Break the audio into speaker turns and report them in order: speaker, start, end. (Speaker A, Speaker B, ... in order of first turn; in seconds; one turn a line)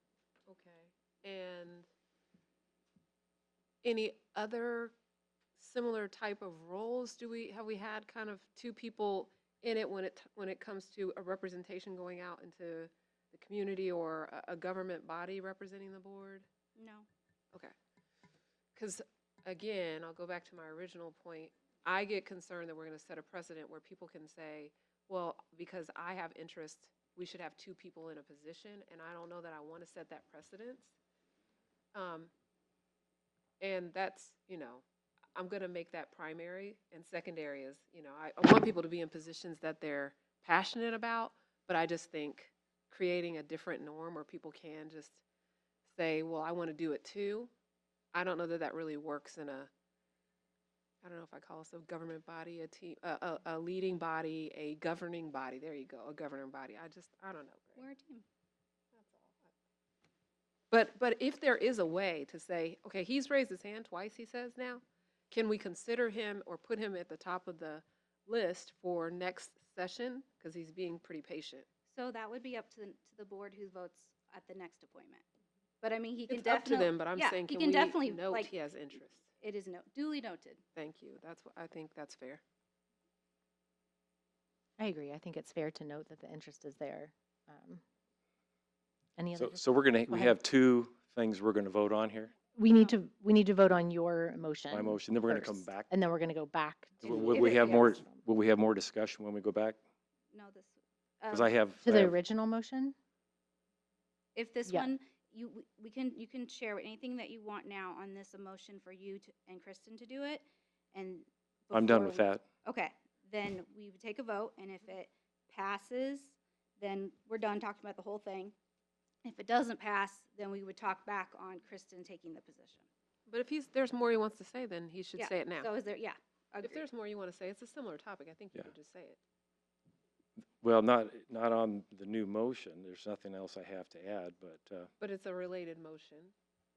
Speaker A: 0.5-1.9
Speaker A: 3.8-4.9
Speaker A: 5.6-16.4
Speaker B: 16.8-17.1
Speaker A: 18.8-30.9
Speaker A: 31.9-32.3
Speaker A: 33.6-34.8
Speaker A: 35.3-45.2
Speaker A: 45.9-47.5
Speaker A: 48.1-49.7
Speaker A: 51.0-57.8
Speaker B: 57.8-58.2
Speaker A: 58.9-59.5
Speaker A: 60.7-71.7
Speaker B: 71.9-75.2
Speaker B: 75.8-78.5
Speaker A: 76.3-79.2
Speaker B: 79.4-80.6
Speaker A: 80.8-82.4
Speaker C: 84.8-87.8
Speaker C: 89.2-90.3
Speaker D: 89.4-92.3
Speaker C: 92.5-98.2
Speaker B: 92.7-93.0
Speaker D: 94.7-95.9
Speaker D: 97.0-99.8
Speaker B: 97.1-98.0
Speaker B: 100.3-101.5
Speaker D: 101.3-102.1
Speaker C: 101.8-102.9
Speaker B: 104.3-118.5
Speaker C: 104.6-104.9
Speaker D: 111.7-112.4
Speaker B: 119.2-122.8
Speaker A: 123.3-125.7
Speaker B: 125.2-126.8
Speaker A: 126.6-129.2
Speaker D: 130.6-134.9
Speaker A: 135.0-136.3